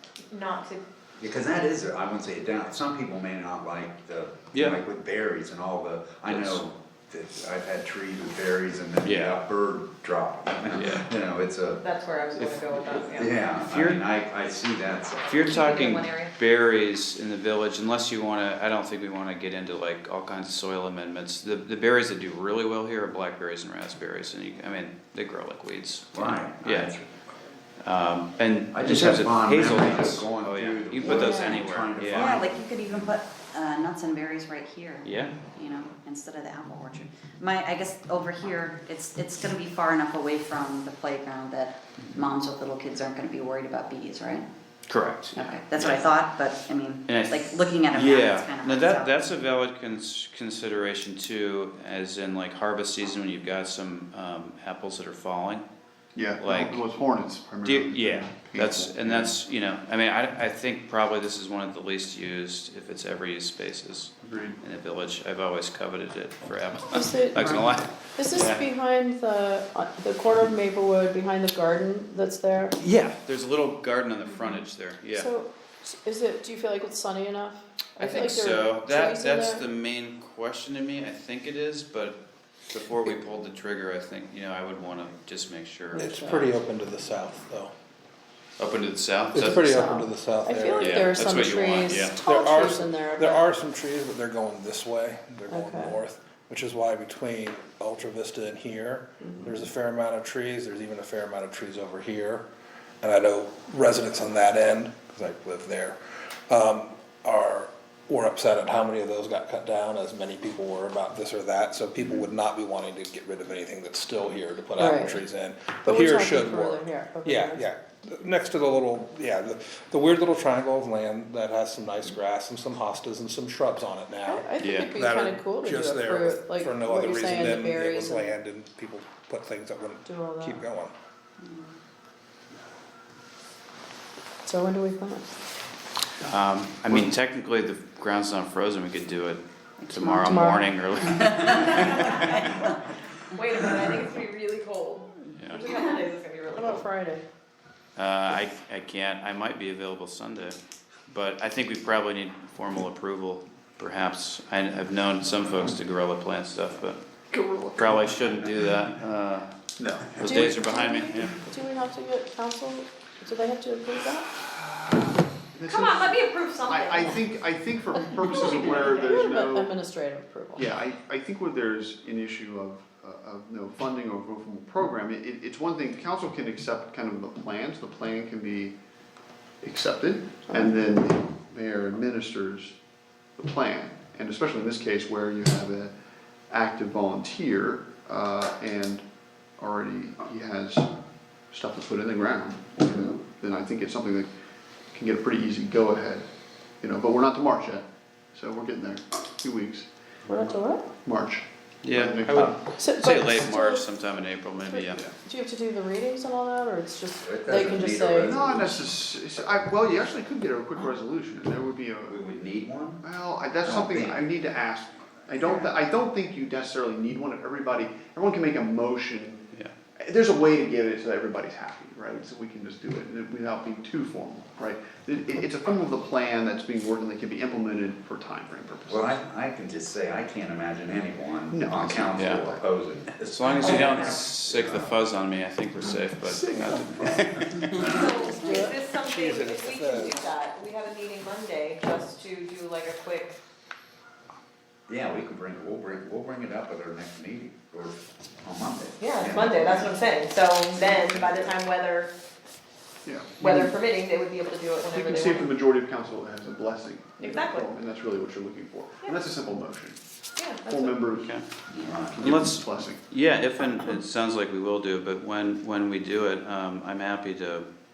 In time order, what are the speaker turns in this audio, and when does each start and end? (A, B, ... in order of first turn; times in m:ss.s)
0:00.3-0:00.9 A
0:01.2-0:11.8 B
0:04.5-0:04.8 C
0:06.3-0:06.6 C
0:09.0-0:09.4 C
0:10.7-0:11.1 C
0:11.8-0:13.5 A
0:12.3-0:14.0 C
0:13.1-0:15.5 B
0:15.3-0:26.9 C
0:15.4-0:16.3 D
0:26.1-0:27.1 B
0:27.8-0:32.4 C
0:28.7-0:33.1 B
0:31.1-0:44.4 D
0:35.0-0:35.4 C
0:44.9-0:46.1 C
0:45.4-0:49.1 D
0:47.0-0:55.6 C
0:56.1-0:59.4 E
0:56.3-0:56.8 C
0:57.6-1:08.6 C
1:04.2-1:04.6 E
1:06.9-1:12.8 F
1:12.8-1:15.3 C
1:15.1-1:19.6 F
1:18.0-1:26.1 C
1:25.9-1:26.5 F
1:26.0-1:27.7 G
1:28.6-1:29.6 C
1:29.3-1:31.2 G
1:29.4-1:33.5 F
1:30.8-1:32.2 C
1:32.2-1:42.5 G
1:35.5-1:36.0 F
1:39.2-1:39.5 F
1:43.0-2:10.9 G
1:54.8-1:55.2 F
1:55.8-1:57.6 F
2:04.2-2:08.3 F
2:04.6-2:04.9 C
2:10.0-2:10.6 F
2:14.4-2:15.4 F
2:16.2-2:22.7 C
2:19.8-2:20.3 D
2:20.2-2:20.6 F
2:21.1-2:21.6 D
2:21.8-2:22.4 A
2:23.3-2:26.8 A
2:25.3-2:25.6 C
2:26.5-2:27.2 F
2:28.0-2:30.6 C
2:31.1-2:37.0 C
2:37.3-2:38.1 E
2:37.8-2:39.5 C
2:39.8-2:40.5 E
2:40.1-2:41.3 C
2:40.2-2:44.3 F
2:44.7-2:49.7 E
2:45.6-2:47.2 A
2:48.5-2:49.1 A
2:49.1-2:50.6 F
2:50.6-2:58.7 E
2:59.6-3:02.8 E
3:03.4-3:05.9 E
3:06.5-3:09.0 E
3:09.6-3:10.9 E
3:11.5-3:14.3 E
3:14.9-3:16.3 E
3:16.8-3:19.9 E
3:20.3-3:20.8 F
3:21.0-3:22.5 E
3:21.8-3:25.0 C
3:22.7-3:23.8 F
3:24.7-3:28.3 F
3:27.2-3:28.9 B
3:28.3-3:32.2 E
3:32.1-3:33.0 B
3:33.0-3:39.4 E
3:33.6-3:34.2 B
3:40.0-3:49.2 E
3:48.9-3:55.0 B
3:51.5-3:52.6 E
3:53.2-3:57.9 C
3:53.6-3:54.2 A
3:55.8-3:57.7 E
3:57.7-3:58.5 B
3:57.9-4:03.4 A
3:58.3-3:58.7 F
3:59.0-4:00.1 G
4:04.9-4:10.0 B
4:09.0-4:12.1 A
4:10.7-4:11.5 B
4:13.0-4:13.7 E
4:13.4-4:15.5 A
4:14.8-4:20.0 E
4:17.2-4:17.7 A
4:20.4-4:21.0 A
4:20.6-4:23.0 E
4:21.2-4:21.4 C
4:21.7-4:22.0 D
4:21.8-4:22.3 B
4:22.2-4:27.7 C